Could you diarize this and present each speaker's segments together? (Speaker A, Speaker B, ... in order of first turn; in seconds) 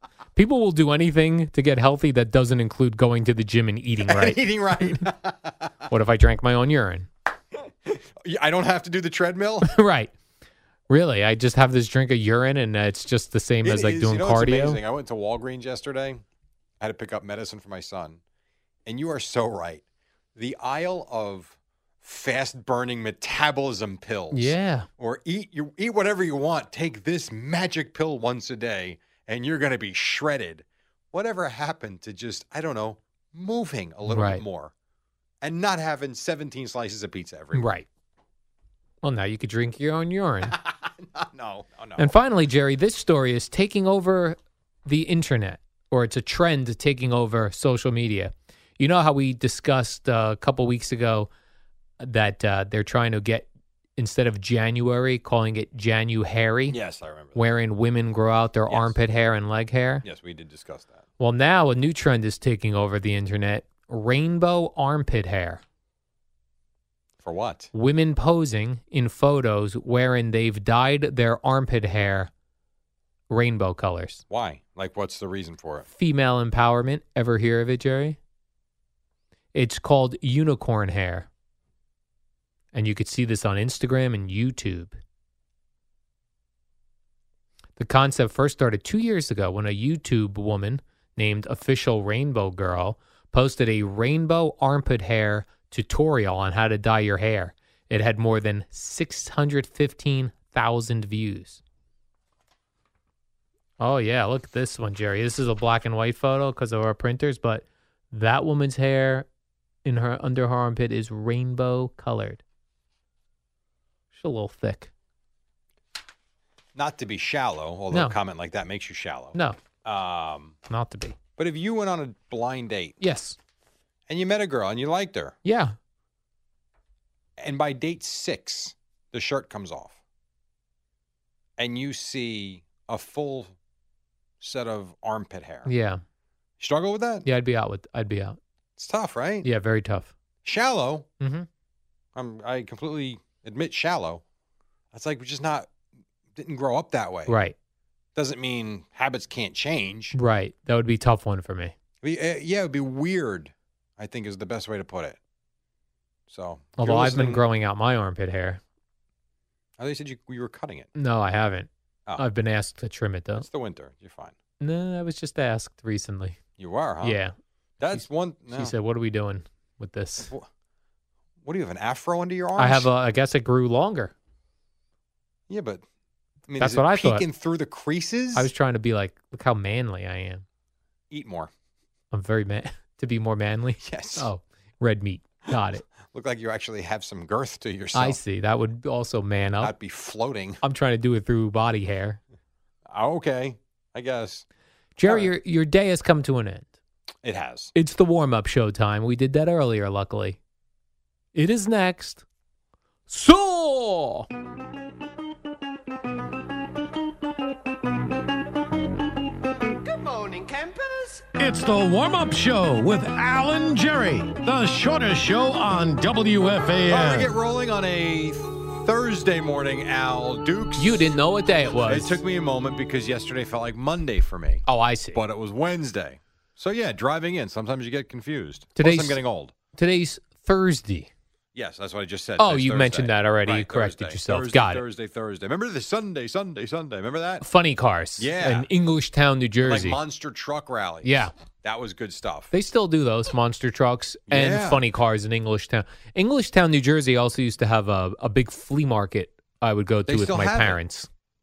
Speaker A: 0.3-5.1, 5.9-7.1, 9.6-10.1, 10.9-14.8, 24.3-24.9, 34.1-34.4, 37.5-37.9, 39.0-40.5, 42.0-51.3, 52.0-56.8, 57.3-60.0, 61.2-65.6, 67.7-72.3, 73.3-74.2, 75.9-78.2, 79.5-81.3, 82.7-85.0, 87.8-101.6, 103.8-109.3, 109.8-112.4, 114.1-114.9, 117.9-118.2, 120.7-121.2, 123.0-123.4, 125.4-125.7, 135.7-136.0, 137.2-138.4, 139.4-140.1, 141.2-141.5, 147.3-147.5, 150.1-151.7, 156.8-158.6, 160.9-163.4, 164.6-166.4, 167.0-167.3, 167.9-170.3, 172.6-174.1, 176.6-177.2, 178.3-180.4, 182.1-185.8, 187.9-189.7, 190.6-192.2, 194.9-196.7, 197.7-200.4, 201.3-202.2, 203.1-204.3, 220.8-222.2, 224.7-225.2, 228.8-229.2, 229.7-231.1, 232.4-234.8, 237.4-240.0, 241.0-241.3, 242.5-251.1
Speaker B: 4.0-5.9, 7.9-9.7, 13.6-16.2, 16.8-18.2, 18.9-19.8, 20.4-34.7, 35.4-37.7, 40.5-42.1, 56.7-57.4, 58.7-59.0, 60.0-61.0, 67.2-67.7, 74.3-75.8, 116.7-120.5, 121.4-123.0, 124.1-125.4, 127.4-130.0, 131.6-133.6, 134.4-135.7, 136.6-137.3, 138.8-139.5, 140.4-141.1, 142.1-144.2, 144.9-145.7, 146.3-147.4, 148.1-150.1, 152.0-155.2, 156.3-157.4, 159.8-160.9, 163.4-164.3, 166.6-167.2, 167.8-168.7, 171.4-172.9, 175.5-175.8, 176.5-178.5, 181.1-181.5, 183.8-184.3, 186.1-188.2, 189.6-190.6, 192.9-194.4, 195.1-195.3, 197.2-197.7, 216.9-221.2, 221.8-229.5, 231.5-237.4, 238.2-238.7, 239.6-242.5, 244.3-244.8, 250.1-250.8
Speaker C: 209.9-217.3